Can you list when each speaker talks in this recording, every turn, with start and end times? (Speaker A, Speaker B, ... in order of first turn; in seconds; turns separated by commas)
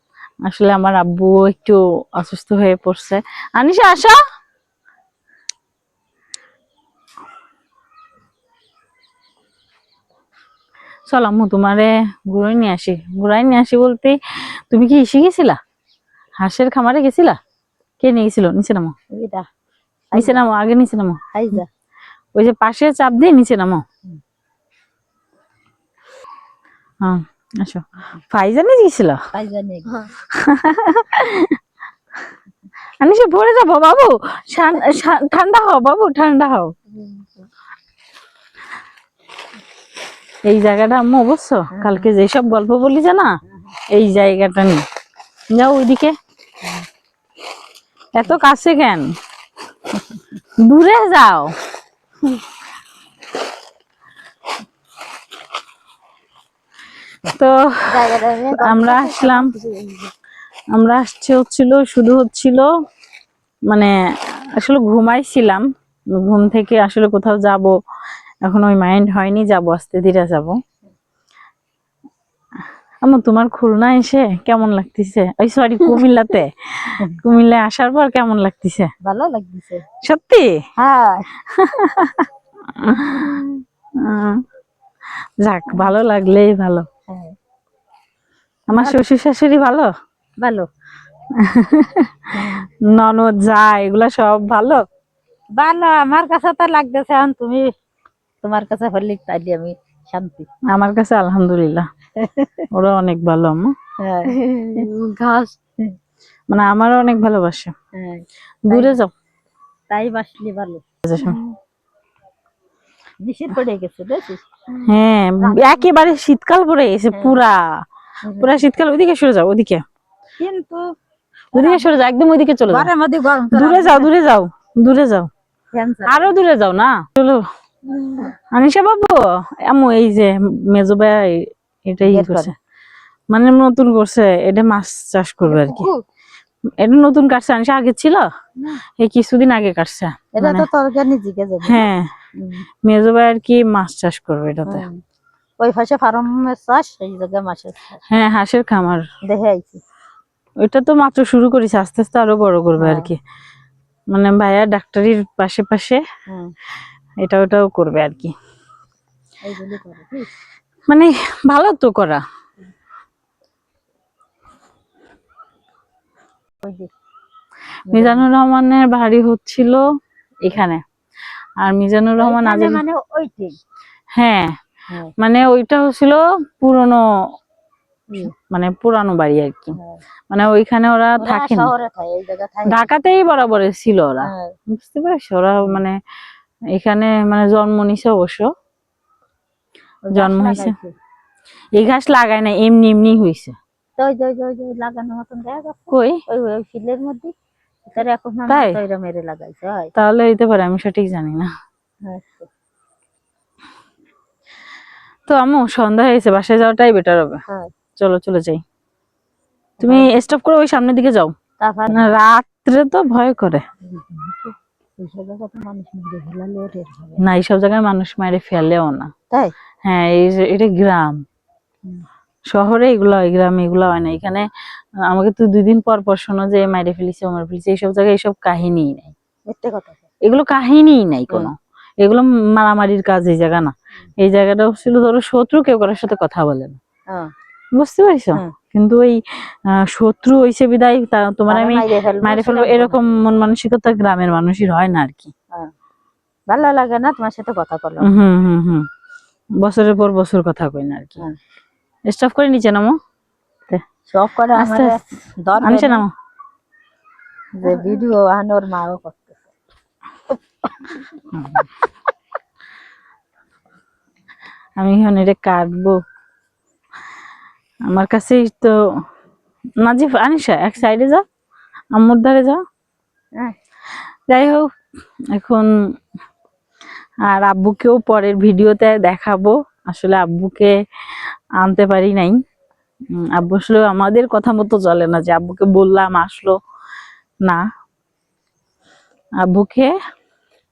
Speaker A: 0.4-4.2, Speaker A: 11.1-15.6, Speaker A: 16.4-17.4, Speaker A: 18.0-18.9, Speaker B: 19.1-19.5, Speaker B: 20.1-20.4, Speaker A: 20.1-21.2, Speaker B: 21.3-21.7, Speaker A: 22.3-23.8, Speaker A: 27.0-29.2, Speaker B: 29.3-30.1, Speaker A: 30.3-31.6, Speaker A: 33.0-36.7, Speaker B: 36.9-37.3, Speaker A: 40.4-43.3, Speaker B: 41.7-42.1, Speaker A: 43.9-44.8, Speaker A: 45.5-46.1, Speaker A: 48.1-49.1, Speaker A: 50.6-51.5, Speaker A: 57.3-57.6, Speaker B: 57.9-60.1, Speaker A: 58.5-59.5, Speaker A: 60.7-62.7, Speaker A: 64.5-65.6, Speaker A: 66.1-67.7, Speaker A: 68.4-70.5, Speaker A: 73.0-78.9, Speaker B: 79.0-79.8, Speaker A: 80.0-80.6, Speaker B: 80.8-81.3, Speaker A: 81.5-83.4, Speaker B: 82.9-83.6, Speaker A: 84.0-84.4, Speaker A: 85.4-86.8, Speaker B: 87.1-87.3, Speaker A: 88.7-89.9, Speaker B: 88.7-89.0, Speaker B: 90.4-90.7, Speaker A: 91.3-94.8, Speaker B: 92.3-92.7, Speaker B: 95.6-97.7, Speaker B: 98.4-100.5, Speaker A: 100.7-101.8, Speaker B: 102.2-102.7, Speaker A: 102.7-103.7, Speaker B: 104.0-104.8, Speaker A: 104.3-105.6, Speaker A: 106.5-107.7, Speaker B: 107.9-109.0, Speaker A: 108.7-109.1, Speaker B: 109.9-111.5, Speaker A: 111.0-111.4, Speaker B: 113.2-114.9, Speaker A: 114.8-117.8, Speaker B: 115.4-115.9, Speaker B: 117.1-117.4, Speaker B: 118.2-118.6, Speaker A: 118.4-119.8, Speaker B: 120.4-120.9, Speaker B: 121.5-121.9, Speaker A: 121.5-122.9, Speaker B: 122.7-124.1, Speaker A: 123.5-125.3, Speaker B: 125.7-126.4, Speaker A: 126.0-127.4, Speaker B: 127.9-128.3, Speaker A: 128.5-132.5, Speaker B: 132.0-132.5, Speaker A: 133.3-135.9, Speaker B: 135.4-136.0, Speaker A: 136.8-138.3, Speaker A: 139.0-140.7, Speaker B: 140.3-142.6, Speaker A: 141.6-142.1, Speaker A: 142.8-144.8, Speaker B: 144.7-145.0, Speaker B: 145.6-148.0, Speaker A: 148.1-149.1, Speaker B: 149.3-149.8, Speaker A: 150.6-153.2, Speaker B: 152.8-153.1, Speaker A: 154.1-156.0, Speaker B: 156.3-156.5, Speaker A: 157.2-158.3, Speaker B: 159.4-160.3, Speaker A: 160.9-162.2, Speaker B: 166.6-166.9, Speaker B: 167.9-168.2, Speaker A: 167.9-169.8, Speaker A: 170.4-170.8, Speaker A: 171.6-172.8, Speaker B: 172.2-173.6, Speaker A: 174.2-174.5, Speaker A: 175.2-177.0, Speaker A: 178.2-179.7, Speaker B: 179.7-180.0, Speaker A: 180.3-181.7, Speaker B: 181.2-182.9, Speaker A: 182.7-186.0, Speaker B: 184.2-184.5, Speaker A: 186.7-188.5, Speaker B: 190.1-190.9, Speaker A: 190.1-190.7, Speaker A: 191.7-193.6, Speaker B: 194.0-197.3, Speaker A: 195.9-196.2, Speaker B: 197.9-199.9, Speaker A: 198.5-198.8, Speaker A: 199.9-201.5, Speaker B: 202.0-202.5, Speaker A: 205.3-207.4, Speaker A: 208.0-208.6, Speaker B: 209.8-210.1, Speaker A: 209.8-211.3, Speaker B: 211.6-212.1, Speaker A: 211.9-213.6, Speaker B: 213.8-217.2, Speaker A: 217.2-219.1, Speaker A: 219.8-221.2, Speaker A: 222.5-224.5, Speaker A: 225.1-229.1, Speaker B: 229.5-230.0, Speaker A: 230.2-236.8, Speaker A: 237.8-245.3, Speaker B: 241.5-243.2, Speaker B: 246.5-248.1, Speaker A: 248.0-248.9, Speaker A: 249.6-251.2, Speaker A: 252.1-252.9, Speaker B: 254.1-256.0, Speaker A: 254.5-255.0, Speaker A: 255.6-256.1, Speaker B: 257.6-259.5, Speaker A: 261.3-261.6, Speaker A: 264.8-266.0, Speaker A: 267.9-268.8, Speaker A: 269.8-271.2, Speaker A: 271.9-272.6, Speaker A: 274.3-274.7, Speaker A: 275.3-275.7, Speaker A: 277.2-280.7, Speaker A: 281.6-282.4, Speaker A: 283.1-286.6, Speaker A: 289.4-289.9